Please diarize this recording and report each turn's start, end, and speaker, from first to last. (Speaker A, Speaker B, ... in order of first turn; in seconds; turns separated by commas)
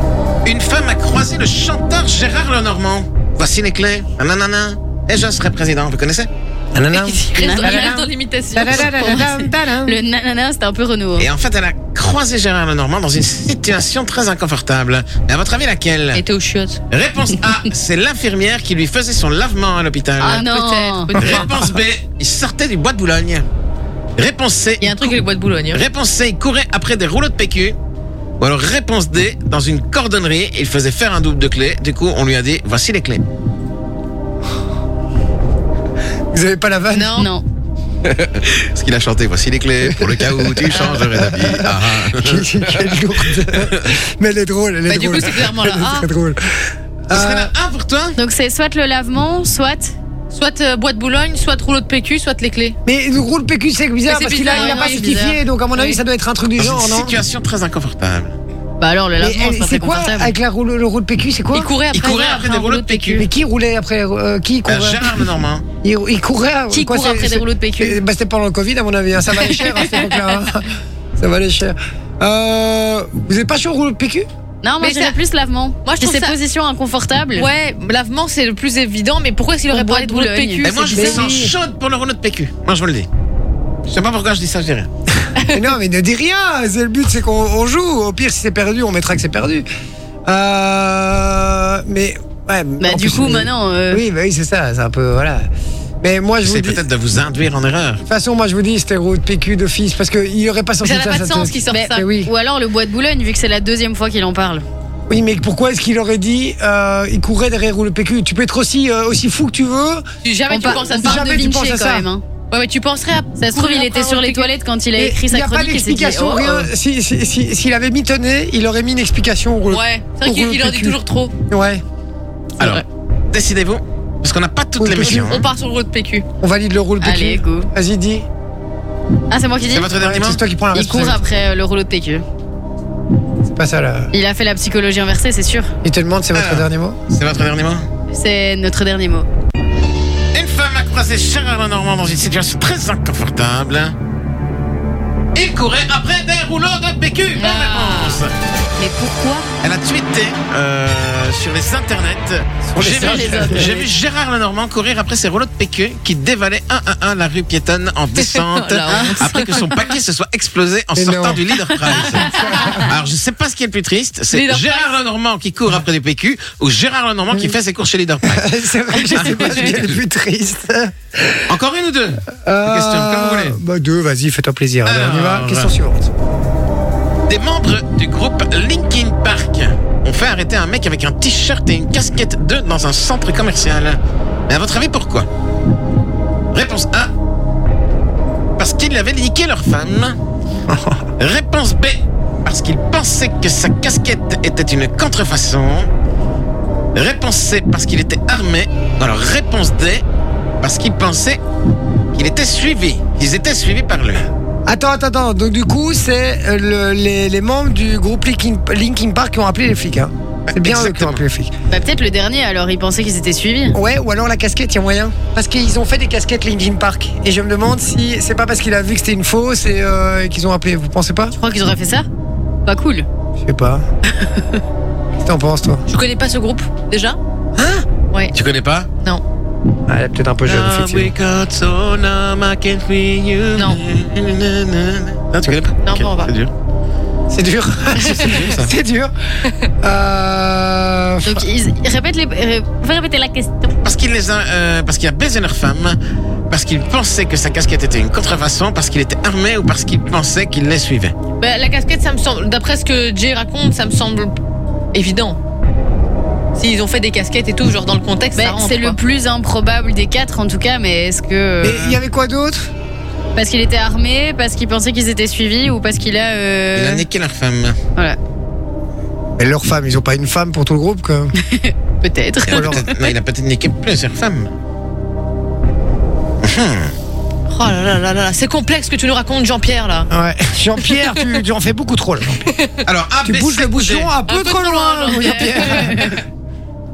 Speaker A: 0.5-6.3, Speaker B: 6.7-10.0, Speaker C: 6.9-9.3, Speaker D: 7.3-8.0, Speaker D: 8.8-11.3, Speaker A: 11.2-16.2, Speaker C: 16.1-16.8, Speaker A: 16.9-20.5, Speaker D: 20.2-21.1, Speaker C: 20.3-21.8, Speaker A: 21.1-23.5, Speaker A: 24.2-25.2, Speaker C: 24.8-25.8, Speaker A: 25.7-27.8, Speaker A: 28.4-33.2, Speaker B: 36.3-37.3, Speaker C: 36.9-37.3, Speaker D: 37.2-37.4, Speaker A: 38.0-43.9, Speaker B: 39.8-47.5, Speaker C: 44.9-46.1, Speaker A: 47.1-48.2, Speaker D: 48.2-50.0, Speaker C: 50.3-52.8, Speaker B: 52.9-57.2, Speaker C: 54.1-56.0, Speaker D: 54.4-55.4, Speaker A: 56.6-58.4, Speaker D: 58.8-60.4, Speaker B: 59.2-61.7, Speaker C: 61.5-63.2, Speaker A: 61.9-63.2, Speaker B: 63.2-65.3, Speaker A: 64.7-65.7, Speaker B: 65.8-74.3, Speaker D: 66.7-68.0, Speaker D: 74.6-77.5, Speaker C: 74.8-75.2, Speaker C: 75.8-76.4, Speaker C: 77.3-81.3, Speaker D: 79.7-80.7, Speaker A: 80.6-83.1, Speaker B: 80.9-81.6, Speaker A: 83.9-84.9, Speaker B: 85.5-89.7, Speaker B: 90.3-95.5, Speaker D: 92.8-94.0, Speaker B: 96.0-96.8, Speaker A: 96.4-98.0, Speaker B: 98.0-102.3, Speaker C: 100.8-102.1, Speaker D: 101.7-104.7, Speaker B: 105.1-110.0, Speaker C: 110.2-111.5, Speaker D: 110.5-112.2, Speaker B: 110.6-112.1, Speaker C: 112.5-114.5, Speaker D: 113.4-116.7, Speaker B: 115.0-121.0, Speaker C: 119.7-121.3, Speaker B: 121.5-121.8, Speaker A: 122.6-125.5, Speaker B: 124.8-125.4, Speaker C: 125.0-126.2, Speaker B: 126.4-128.3, Speaker D: 127.0-127.7, Speaker D: 129.3-129.9, Speaker A: 129.7-130.4, Speaker B: 129.9-131.2, Speaker D: 130.7-132.2, Speaker B: 133.5-134.1, Speaker D: 134.1-135.7, Speaker B: 135.8-137.0, Speaker A: 136.3-137.9, Speaker D: 138.1-139.3, Speaker A: 140.3-143.9, Speaker A: 145.3-148.3, Speaker C: 147.4-148.2, Speaker D: 148.8-149.6, Speaker A: 149.6-168.5, Speaker B: 152.7-153.7, Speaker D: 152.8-153.9, Speaker C: 158.2-159.8, Speaker D: 158.9-159.3, Speaker B: 160.9-162.9, Speaker C: 161.9-162.9, Speaker C: 164.3-164.9, Speaker B: 168.2-171.5, Speaker A: 169.1-170.0, Speaker A: 171.5-173.6, Speaker B: 172.3-176.1, Speaker A: 174.8-175.7, Speaker A: 177.3-185.3, Speaker A: 186.5-187.1, Speaker A: 188.6-190.2, Speaker B: 190.7-191.1, Speaker A: 191.2-195.9, Speaker A: 196.9-200.0, Speaker A: 200.6-201.4, Speaker A: 202.1-204.3, Speaker B: 204.7-211.5, Speaker A: 210.5-211.2, Speaker D: 211.7-213.8, Speaker B: 213.7-221.3, Speaker D: 221.3-222.1, Speaker D: 222.7-223.1, Speaker B: 223.4-223.9, Speaker B: 225.2-225.8, Speaker C: 225.9-227.2, Speaker B: 227.6-227.8, Speaker A: 228.3-228.9, Speaker B: 229.9-231.1, Speaker A: 230.5-236.5, Speaker C: 233.6-233.8, Speaker C: 235.8-236.3, Speaker B: 237.3-239.1, Speaker A: 238.1-238.7, Speaker B: 239.8-241.5, Speaker D: 241.2-243.8, Speaker A: 243.8-246.0, Speaker A: 246.5-251.1, Speaker C: 251.4-254.4, Speaker C: 254.9-255.4, Speaker C: 256.6-259.0, Speaker D: 258.4-261.9, Speaker B: 261.6-262.7, Speaker D: 263.4-267.1, Speaker A: 266.8-267.8, Speaker B: 269.4-271.3, Speaker D: 271.4-272.7, Speaker C: 272.1-272.4, Speaker A: 272.5-274.5, Speaker B: 272.5-272.9, Speaker A: 276.4-276.9, Speaker C: 277.5-280.1, Speaker B: 280.1-282.5, Speaker C: 282.5-282.8, Speaker A: 282.9-284.1, Speaker B: 283.2-286.2, Speaker C: 284.3-286.1